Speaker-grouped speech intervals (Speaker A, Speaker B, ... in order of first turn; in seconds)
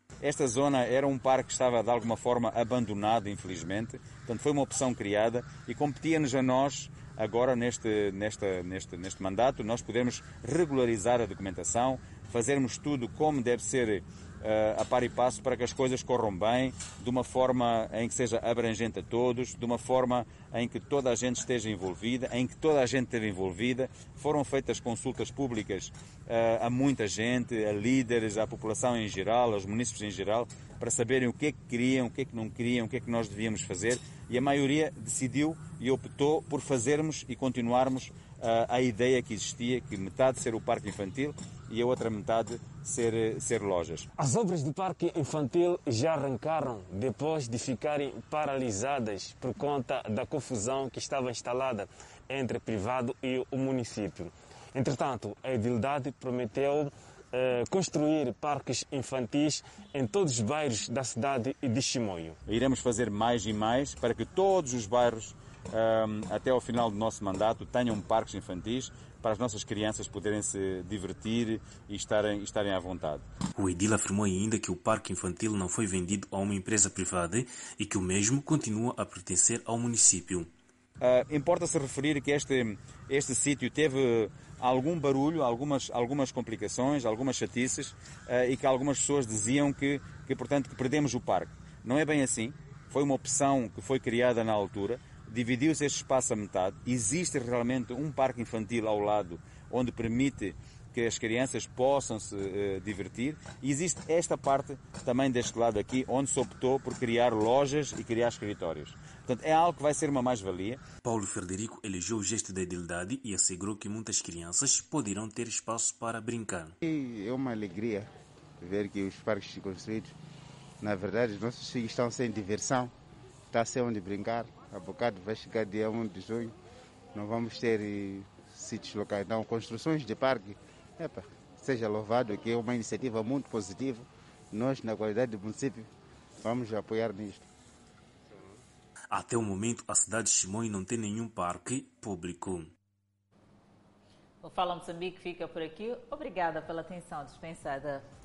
Speaker A: 0.2-44.1, 62.5-73.2, 81.0-110.8
Speaker B: 44.4-51.8, 52.4-54.3, 54.8-56.8, 57.6-59.5, 60.1-62.4
Speaker C: 73.6-80.5, 111.0-116.8, 139.1-142.7
Speaker D: 117.1-118.0, 123.5-126.5, 129.0-129.8, 131.7-134.0, 134.6-135.7, 136.5-137.3
Speaker E: 144.4-148.1